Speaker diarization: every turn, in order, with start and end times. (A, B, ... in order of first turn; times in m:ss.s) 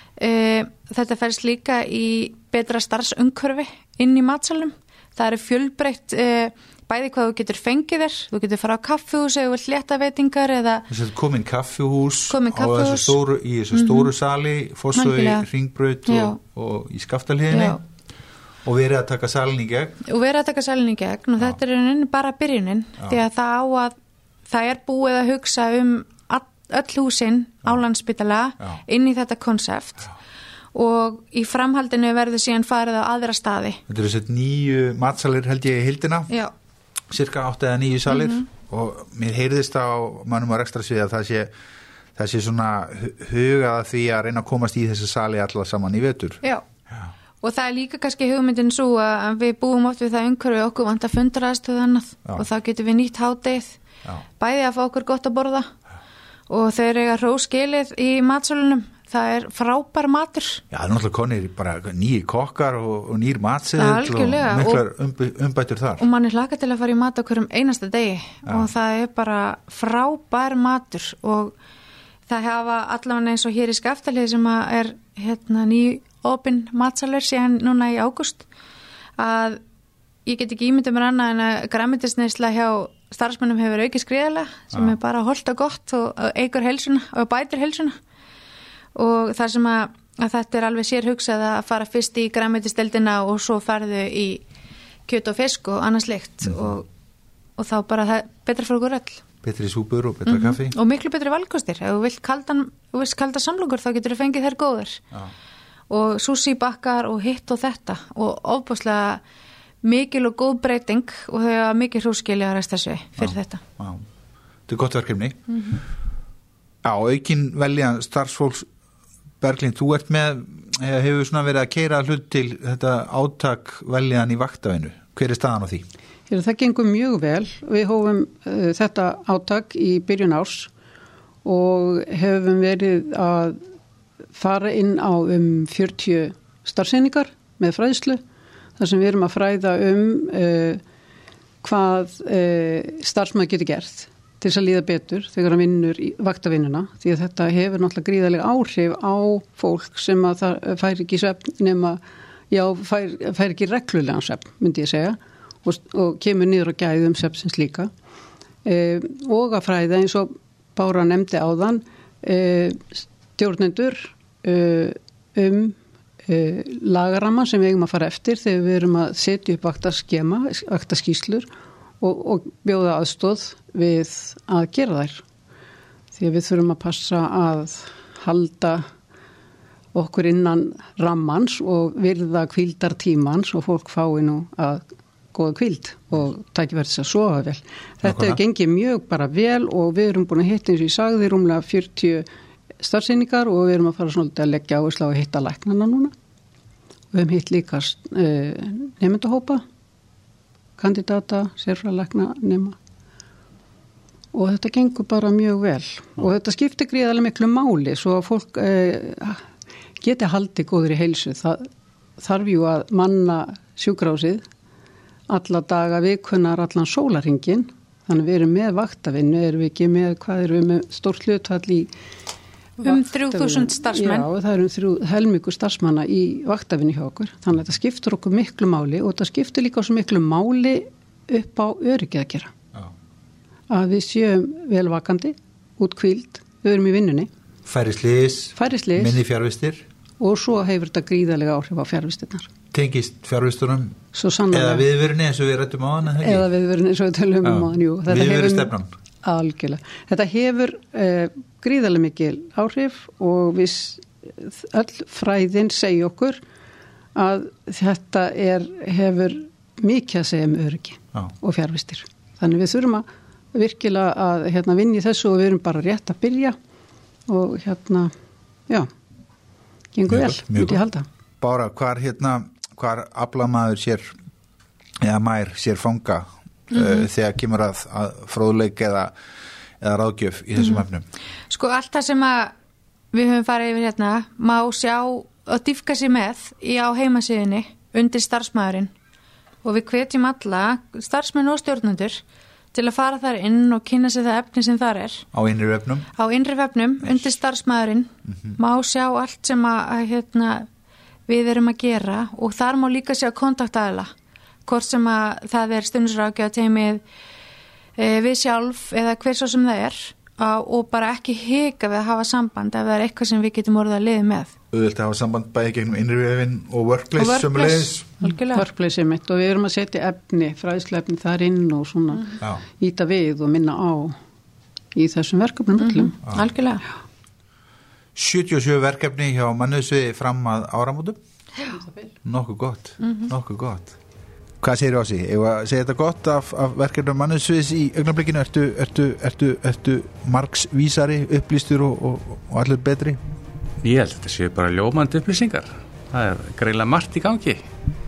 0:00.2-0:10.9 A
0:10.9-0:17.8 B
0:12.3-0:13.2 A
0:13.7-0:14.1 A
0:14.9-0:15.5 A
0:16.1-0:16.4 A
0:17.5-0:17.8 A
0:18.6-0:20.0 B
0:20.0-0:24.0 A
0:24.5-0:30.1 A
0:30.7-0:33.8 A
0:33.9-0:36.3 B
0:37.1-0:41.5 B
0:38.1-0:38.5 A
0:42.2-0:47.1 B
0:47.4-0:53.8 A
0:54.4-0:55.7 A
0:56.5-1:00.6 A
1:00.7-1:06.0 B
1:03.8-1:04.8 A
1:06.0-1:11.6 A
1:12.3-1:18.5 A
1:19.2-1:19.6 A
1:20.3-1:28.0 A
1:29.0-1:34.4 A
1:35.1-1:36.9 A
1:37.6-1:39.2 A
1:39.4-1:40.8 B
1:40.3-1:45.0 A
1:45.9-1:49.2 A
1:49.8-1:53.6 A
1:53.2-1:54.0 B
1:54.7-1:55.4 B
1:56.8-1:58.7 B
1:59.4-2:05.9 B
2:06.3-2:10.7 C
2:11.4-2:13.6 C
2:14.4-2:18.2 C
2:18.8-2:20.8 C
2:21.6-2:32.0 C
2:32.5-2:37.9 C
2:38.6-2:45.8 C
2:46.3-2:51.5 C
2:52.0-2:55.2 C
2:56.1-2:58.9 C
2:59.9-3:12.3 C
3:08.0-3:08.4 B
3:12.8-3:16.1 C
3:17.1-3:19.6 C
3:20.8-3:22.8 C
3:24.3-3:29.4 C
3:30.0-3:34.4 C
3:35.3-3:41.9 C
3:42.8-3:44.3 A
3:42.8-3:52.5 C
3:53.7-3:57.3 C
3:57.7-3:59.9 B
3:58.6-3:59.2 C
4:00.2-4:02.5 C
4:02.7-4:04.0 B
4:04.1-4:04.9 C
4:04.5-4:06.5 B
4:06.1-4:08.7 C
4:07.4-4:08.9 B
4:09.2-4:16.4 C
4:17.2-4:26.6 C
4:27.3-4:28.1 C
4:30.0-4:31.1 C
4:30.1-4:30.8 B
4:31.4-4:34.2 B
4:35.0-4:39.1 B
4:36.7-4:37.0 A
4:39.8-4:41.1 B
4:40.6-4:40.8 A
4:41.5-4:42.5 A
4:43.1-4:48.9 A
4:49.6-4:52.2 A
4:52.7-4:55.3 A
4:55.3-4:56.1 B
4:56.2-5:00.7 A
4:58.3-4:58.6 B
5:01.3-5:04.1 A
5:04.7-5:07.0 A
5:08.0-5:14.5 A
5:14.7-5:18.1 B
5:17.2-5:18.6 A
5:18.5-5:24.2 C
5:25.0-5:26.1 C
5:25.8-5:26.8 A
5:28.2-5:31.2 B
5:31.8-5:32.1 C
5:32.2-5:34.0 B
5:33.0-5:33.3 A
5:34.6-5:43.2 B
5:43.8-5:47.6 D